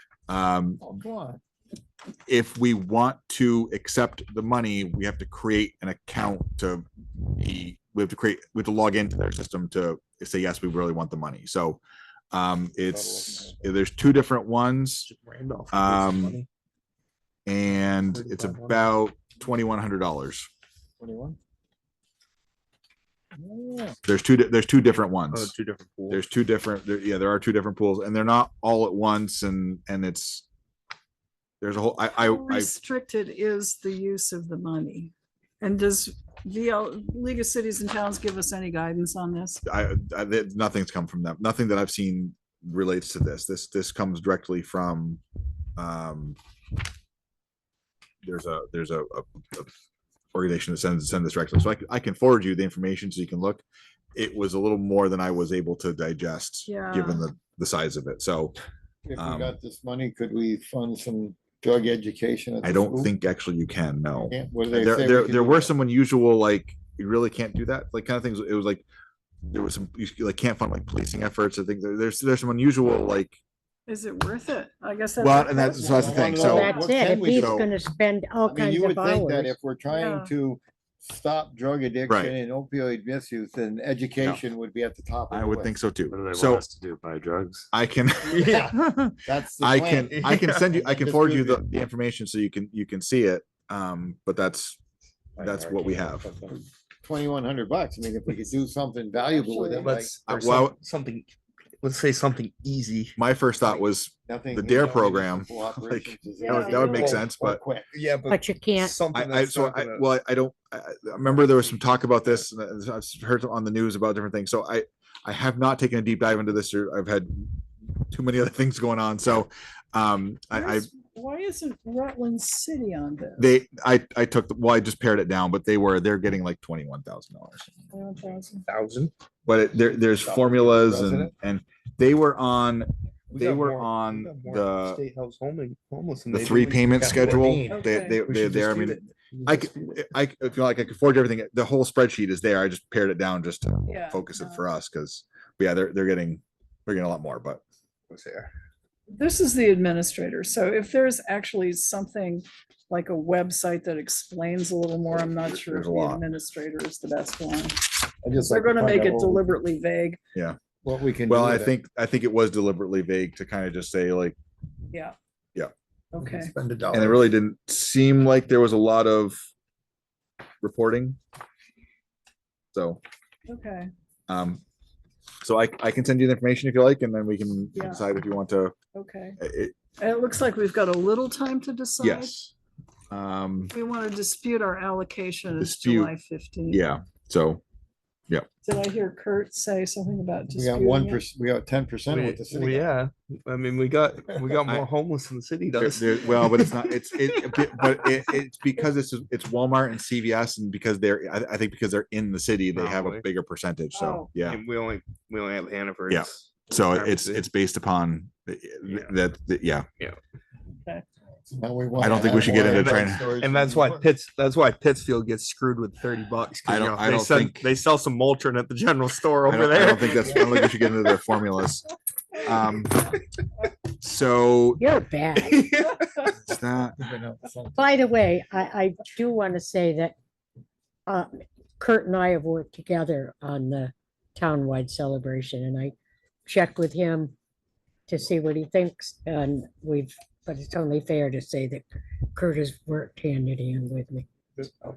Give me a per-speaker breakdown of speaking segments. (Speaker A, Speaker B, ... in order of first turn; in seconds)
Speaker A: 0.3-0.8, 2.3-11.8, 12.3-15.1, 15.7-16.4, 17.5-20.5, 24.1-25.5, 26.1-30.4, 31.6-32.7, 39.6-45.2, 45.8-46.4, 48.2-49.7, 50.3-53.6, 54.1-58.5, 59.2-59.6, 62.6-68.8, 69.5-73.4, 75.2-76.8, 77.3-77.7, 82.1-82.3, 85.3-86.7, 87.7-94.8, 95.4-96.3, 100.3-100.8, 103.2-107.6, 109.1-117.6, 118.1-120.9, 123.4-127.7, 129.5-135.0, 136.3-147.6, 155.4-156.2, 161.3-164.4, 166.9-169.4, 170.6-171.2, 172.7-173.0, 174.3-174.6, 175.4-178.8, 179.4-179.7, 182.0-182.5, 183.1-183.8, 185.6-186.1, 186.7-187.6, 195.8-204.6, 206.1-209.9, 212.0-213.3, 216.7-217.6, 219.5-223.2, 224.0-224.8, 226.4-227.0
Speaker B: 0.8-1.4, 12.8-13.8, 21.0-21.4, 23.4-24.0, 59.0-63.1, 64.3-65.7, 75.7-77.7, 78.5-85.8, 88.4-91.6, 97.0-100.2, 104.3-107.9, 130.0-131.3, 137.0-138.6, 158.2-159.5, 160.8-161.8, 166.2-167.3, 190.6-192.9, 211.5-214.1, 226.9-227.9
Speaker C: 15.1-16.5, 18.1-18.9, 25.3-26.2, 90.2-90.7, 99.8-103.1, 106.9-107.3, 107.9-110.1, 128.7-129.1, 133.3-137.6, 138.3-140.0, 148.1-148.5, 192.1-197.6, 202.7-203.2, 204.4-207.4, 212.3-220.9, 225.4-226.1
Speaker D: 32.2-39.6, 56.7-57.3, 73.9-77.0, 79.9-80.3, 99.2-100.0, 106.4-107.2, 120.5-123.5, 127.9-128.7, 137.7-138.2, 143.9-144.7, 149.1-157.9, 158.5-160.2, 166.1-166.5, 173.5-173.9, 177.8-178.1, 178.9-179.4, 180.0-182.4, 183.7-186.8, 188.6-191.2, 203.9-204.3
Speaker E: 76.3-79.5, 108.3-109.0, 224.8-225.6, 227.8-230.2, 231.1-235.9, 236.5-237.3, 238.1-244.3
Speaker F: 86.1-87.7, 95.4-96.5